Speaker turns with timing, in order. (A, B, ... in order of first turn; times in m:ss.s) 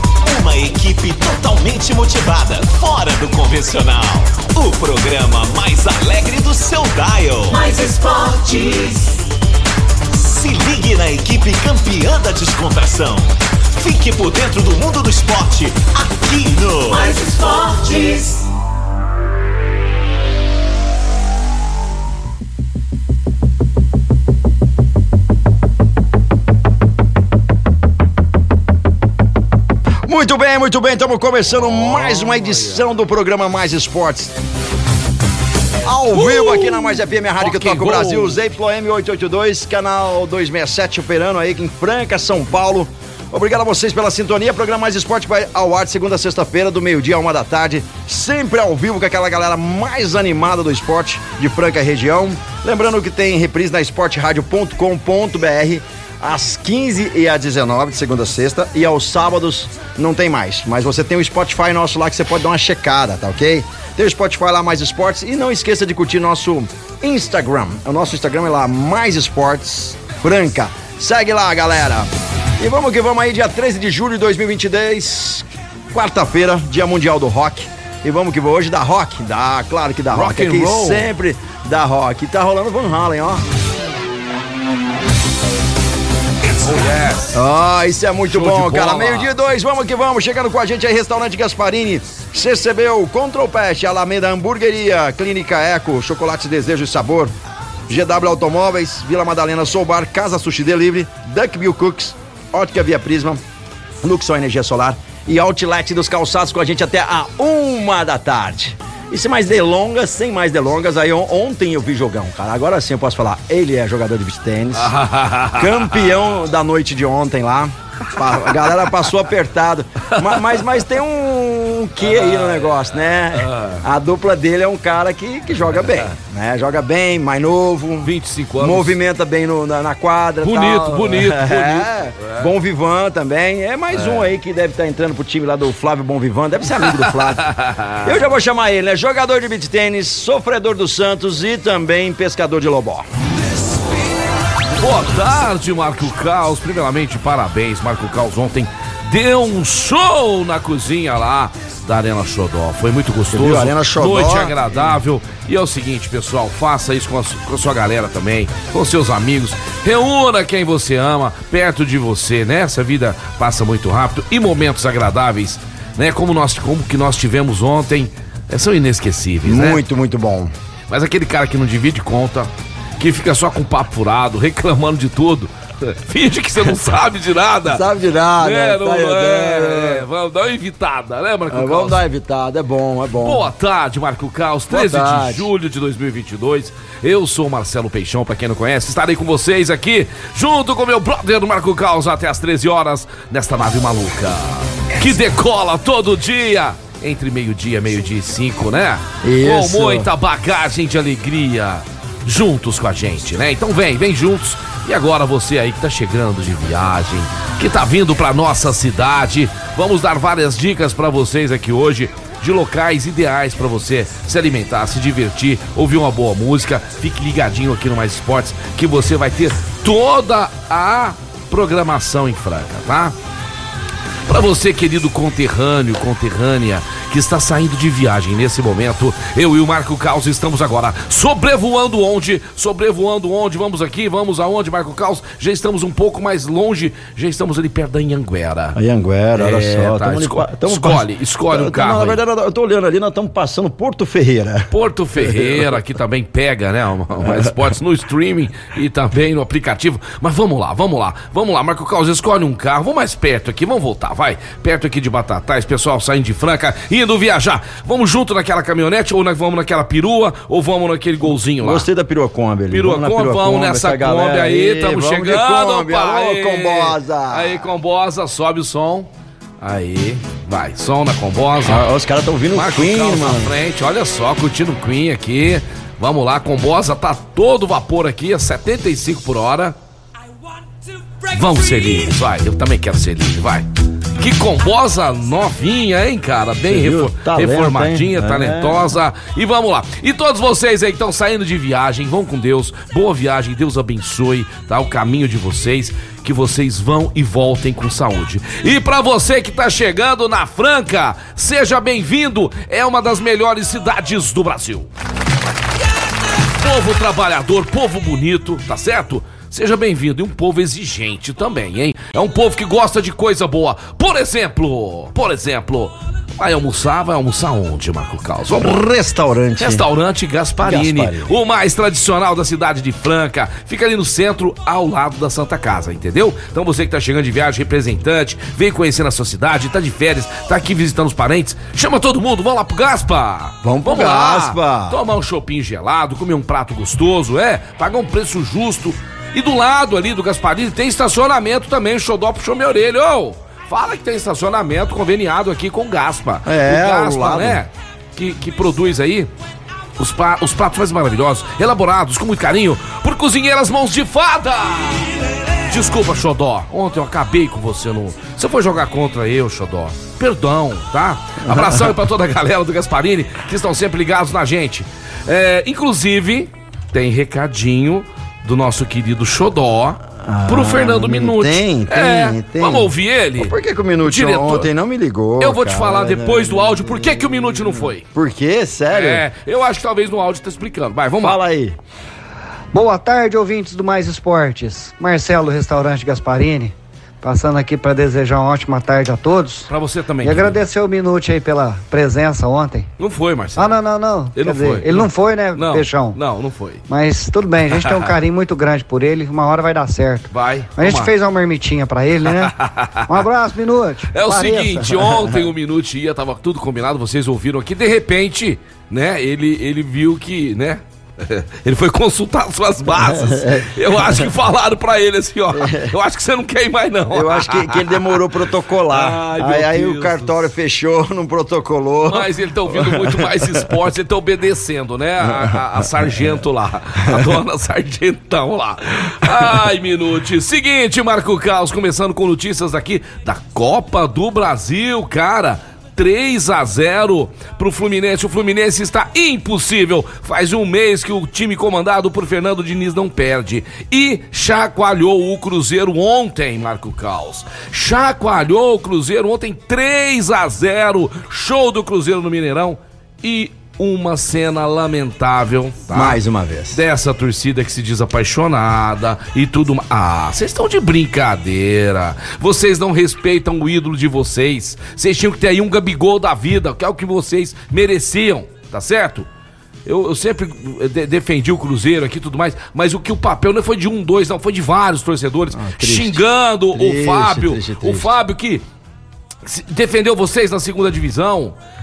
0:00.2-0:07.6 A
0:07.5-0:09.2 B
0:10.1-0:17.1 A
0:16.9-0:18.4 B
0:30.0-0:34.3 C
0:31.6-0:32.8 D
0:35.8-1:23.4 C
0:36.1-0:38.4 D
1:20.1-1:21.1 D
1:26.4-1:27.4 D
1:27.3-1:37.3 C
1:28.3-1:29.3 D
1:37.9-1:43.4 C
1:44.0-1:54.9 C
1:54.7-1:56.1 D
1:55.5-2:17.5 C
1:58.4-1:58.9 D
2:00.2-2:00.6 D
2:02.0-2:03.8 D
2:08.0-2:09.0 D
2:10.4-2:12.5 D
2:13.9-2:14.3 D
2:16.8-2:18.1 D
2:18.0-2:23.0 C
2:24.7-2:49.8 D
2:33.3-2:34.5 C
2:49.4-2:50.5 C
2:50.9-3:02.0 D
2:57.7-3:00.0 C
3:01.5-3:03.4 C
3:03.2-3:43.2 D
3:04.7-3:05.5 C
3:19.2-3:20.1 C
3:44.3-3:58.8 D
3:58.8-4:04.7 C
3:59.3-4:02.2 D
4:04.7-4:21.9 D
4:05.2-4:05.6 C
4:21.6-4:27.6 C
4:22.7-4:29.1 D
4:29.6-4:31.8 D
4:31.6-4:33.5 C
4:32.5-4:39.8 D
4:41.2-5:04.9 D
4:46.7-4:48.9 C
5:06.3-5:18.8 D
5:18.6-5:19.8 C
5:19.6-5:49.3 D
5:20.6-5:21.3 C
5:33.6-5:35.0 C
5:46.4-5:47.6 C
5:50.0-6:14.7 D
6:01.4-6:01.9 C
6:10.2-6:19.2 C
6:15.4-6:18.0 D
6:18.9-6:21.4 D
6:21.2-6:21.8 C
6:22.7-6:29.7 E
6:29.7-6:30.6 D
6:30.2-6:32.9 E
6:33.0-6:33.8 D
6:33.6-6:36.2 E
6:34.3-6:36.8 D
6:36.9-6:42.5 E
6:37.7-6:38.1 D
6:40.3-6:41.1 D
6:42.2-6:43.2 D
6:43.1-6:45.3 E
6:44.1-6:58.4 D
6:53.0-6:54.3 C
6:55.5-6:55.9 C
6:57.1-7:03.7 C
6:58.9-7:00.4 D
7:02.1-7:36.2 D
7:05.4-7:06.0 C
7:35.9-7:36.8 C
7:36.7-7:49.3 D
7:49.8-7:58.6 D
7:55.5-7:58.1 C
7:59.4-8:01.6 D